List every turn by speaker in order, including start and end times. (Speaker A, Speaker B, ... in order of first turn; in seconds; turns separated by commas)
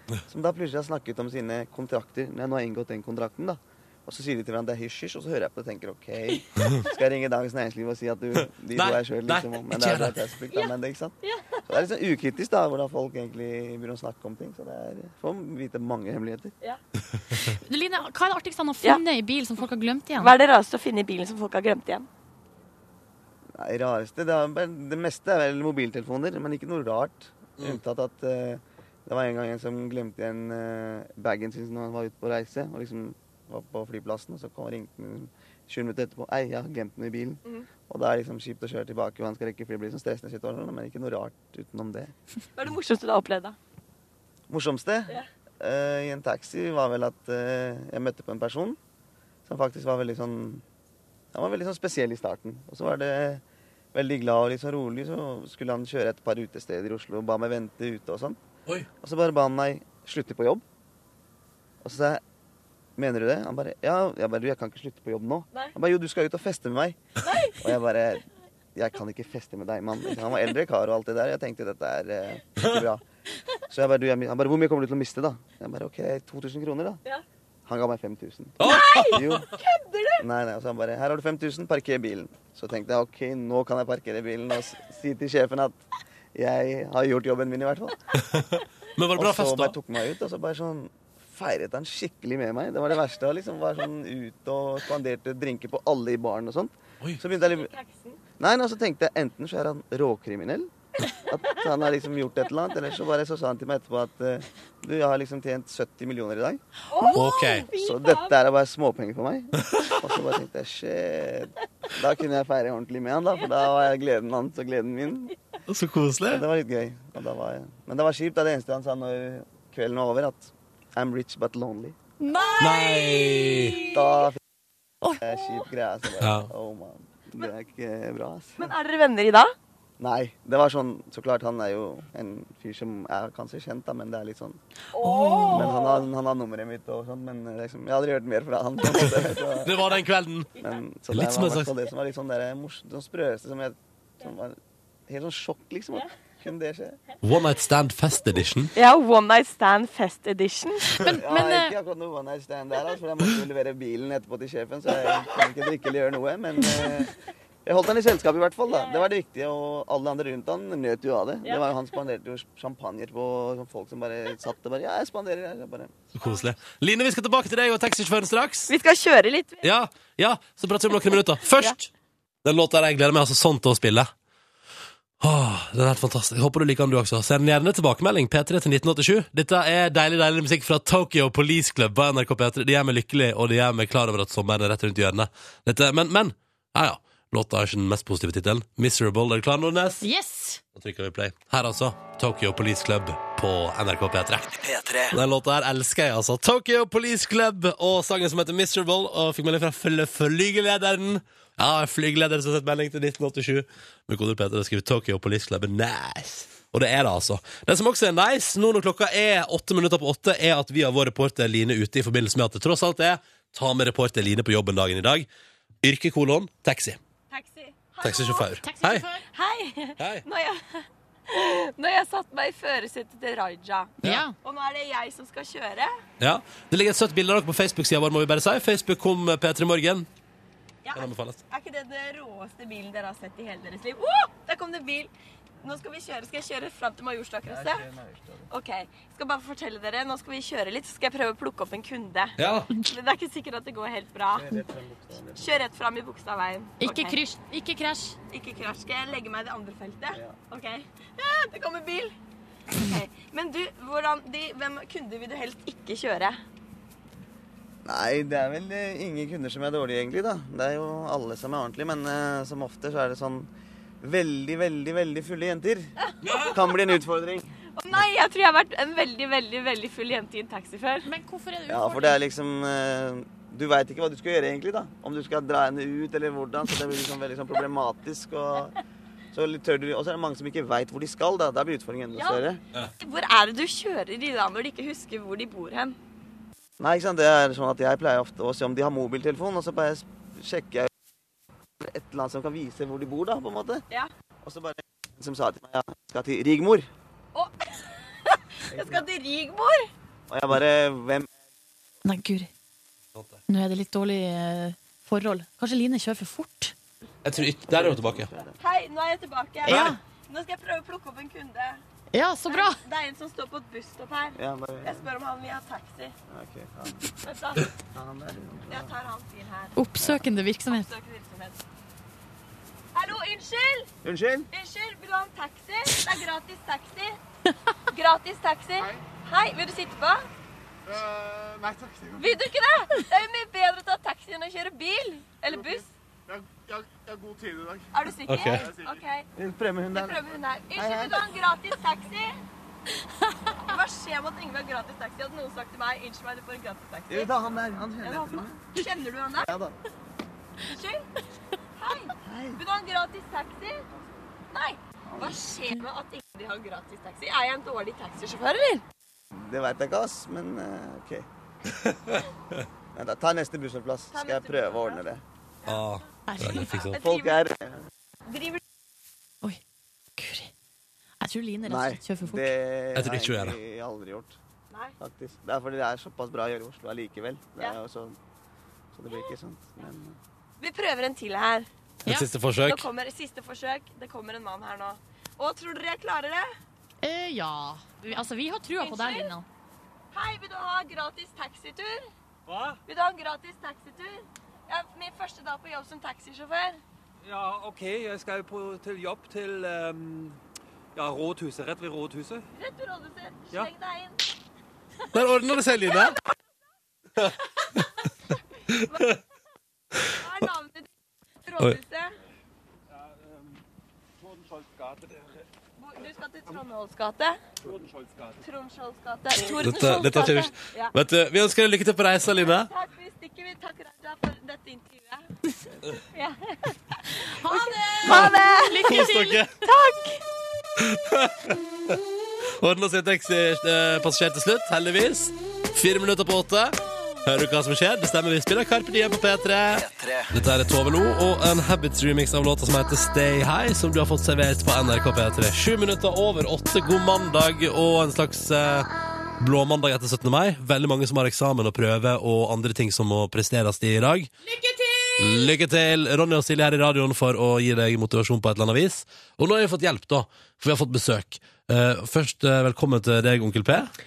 Speaker A: 0.3-11.2, Speaker B: 8.7-10.2, Speaker C: 10.5-11.6, Speaker A: 11.7-16.5, Speaker D: 17.4-20.4, Speaker C: 20.2-22.1, Speaker A: 23.6-42.1, Speaker C: 42.5-43.6, Speaker A: 44.5-48.8, Speaker A: 49.5-50.6, Speaker A: 51.3-53.4, Speaker A: 53.9-58.4, Speaker A: 59.0-60.6, Speaker A: 61.8-62.2, Speaker A: 63.0-67.0, Speaker C: 67.2-67.7, Speaker A: 67.6-73.0, Speaker A: 73.7-77.0, Speaker A: 77.7-79.5, Speaker B: 78.6-79.4, Speaker C: 78.6-80.2, Speaker A: 80.2-85.8, Speaker A: 86.3-88.0, Speaker B: 88.3-89.8, Speaker A: 89.2-97.7, Speaker C: 97.3-98.2, Speaker A: 98.4-100.7, Speaker C: 101.1-101.6, Speaker A: 101.3-106.6, Speaker C: 106.9-108.4, Speaker B: 107.1-107.7, Speaker A: 107.7-115.3, Speaker B: 115.7-116.4, Speaker A: 116.3-122.0, Speaker C: 122.2-124.3, Speaker B: 122.6-123.8, Speaker A: 123.8-124.4, Speaker A: 125.2-128.7, Speaker B: 126.2-126.5, Speaker C: 128.6-129.5, Speaker A: 130.0-134.6, Speaker C: 134.9-136.1, Speaker D: 135.0-135.7, Speaker A: 135.5-139.9, Speaker B: 138.9-140.5, Speaker A: 140.6-144.6, Speaker B: 141.1-141.7, Speaker A: 145.1-147.0, Speaker B: 147.2-148.7, Speaker C: 148.8-151.0, Speaker D: 150.9-151.7, Speaker A: 151.1-165.9, Speaker C: 158.7-159.1, Speaker B: 166.2-168.7, Speaker C: 168.7-169.7, Speaker B: 169.6-171.9, Speaker C: 171.5-171.8, Speaker B: 172.4-174.1, Speaker B: 175.2-190.0, Speaker D: 190.0-190.6, Speaker B: 190.8-215.3, Speaker B: 215.8-217.0, Speaker C: 217.3-218.6, Speaker B: 218.0-219.0, Speaker D: 218.6-219.2, Speaker C: 219.2-225.9, Speaker B: 220.0-220.2, Speaker D: 224.0-224.4, Speaker B: 226.2-230.1, Speaker C: 230.8-235.1, Speaker B: 230.9-231.4, Speaker C: 235.6-237.8, Speaker A: 237.4-238.5, Speaker C: 238.5-244.6, Speaker B: 242.4-242.7, Speaker A: 244.3-245.7, Speaker C: 245.4-247.2, Speaker D: 246.8-248.2, Speaker C: 248.3-252.1, Speaker A: 250.1-250.4, Speaker C: 252.8-256.4, Speaker A: 257.9-263.5, Speaker A: 264.0-267.5, Speaker C: 267.8-271.1, Speaker D: 271.1-272.2, Speaker A: 271.7-278.8, Speaker A: 279.3-282.6, Speaker C: 282.1-282.5, Speaker C: 283.0-286.0, Speaker A: 286.8-290.9, Speaker A: 291.8-293.9, Speaker A: 294.4-296.9, Speaker C: 297.3-299.9, Speaker A: 298.7-299.1, Speaker A: 300.3-301.3, Speaker D: 302.1-302.5, Speaker D: 303.5-306.8, Speaker B: 307.2-308.3, Speaker A: 307.7-308.6, Speaker C: 308.6-311.8, Speaker D: 309.7-310.0, Speaker D: 312.1-312.8, Speaker C: 312.5-316.1, Speaker A: 314.4-315.1, Speaker A: 316.3-317.1, Speaker C: 317.2-317.7, Speaker A: 317.8-318.9, Speaker C: 318.7-319.8, Speaker D: 319.8-320.9, Speaker C: 320.7-321.6, Speaker C: 322.9-323.9, Speaker A: 324.0-324.5, Speaker C: 324.5-327.2, Speaker C: 327.9-330.3, Speaker C: 332.1-335.9, Speaker C: 337.9-339.3, Speaker B: 338.3-338.7, Speaker A: 339.4-341.2, Speaker C: 339.9-342.4, Speaker C: 343.6-349.6, Speaker A: 347.1-348.7, Speaker A: 349.4-349.7, Speaker C: 350.7-351.1, Speaker C: 351.8-353.9, Speaker A: 352.2-352.6, Speaker C: 354.5-358.8, Speaker A: 355.1-355.4, Speaker A: 359.3-361.3, Speaker B: 361.9-362.2, Speaker A: 362.9-365.2, Speaker C: 364.1-365.0, Speaker B: 365.7-367.0, Speaker D: 366.3-366.7, Speaker C: 366.6-367.4, Speaker A: 366.9-367.9, Speaker C: 368.3-368.6, Speaker D: 370.2-370.5, Speaker D: 371.2-372.5, Speaker A: 371.6-374.4, Speaker B: 372.9-373.6, Speaker A: 375.0-378.2, Speaker A: 378.9-380.2, Speaker C: 380.6-381.7, Speaker B: 382.1-382.9, Speaker C: 382.6-386.5, Speaker D: 387.0-389.4, Speaker C: 388.8-389.4, Speaker C: 390.1-392.1, Speaker E: 392.5-392.8, Speaker C: 392.9-396.8, Speaker E: 397.2-400.4, Speaker E: 400.9-402.5, Speaker C: 402.5-404.3, Speaker B: 405.1-406.2, Speaker C: 405.8-406.3, Speaker C: 408.7-409.2, Speaker C: 410.1-410.9, Speaker C: 411.4-412.1, Speaker E: 413.0-413.6, Speaker E: 414.2-415.4, Speaker C: 415.8-417.4, Speaker E: 417.6-418.4, Speaker C: 418.4-420.9, Speaker B: 419.5-422.7, Speaker C: 422.5-425.3, Speaker C: 426.1-429.0, Speaker D: 427.2-429.4, Speaker B: 428.8-429.5, Speaker C: 429.6-430.2, Speaker B: 430.8-431.9, Speaker B: 432.6-454.3, Speaker D: 454.5-455.5, Speaker B: 455.2-463.9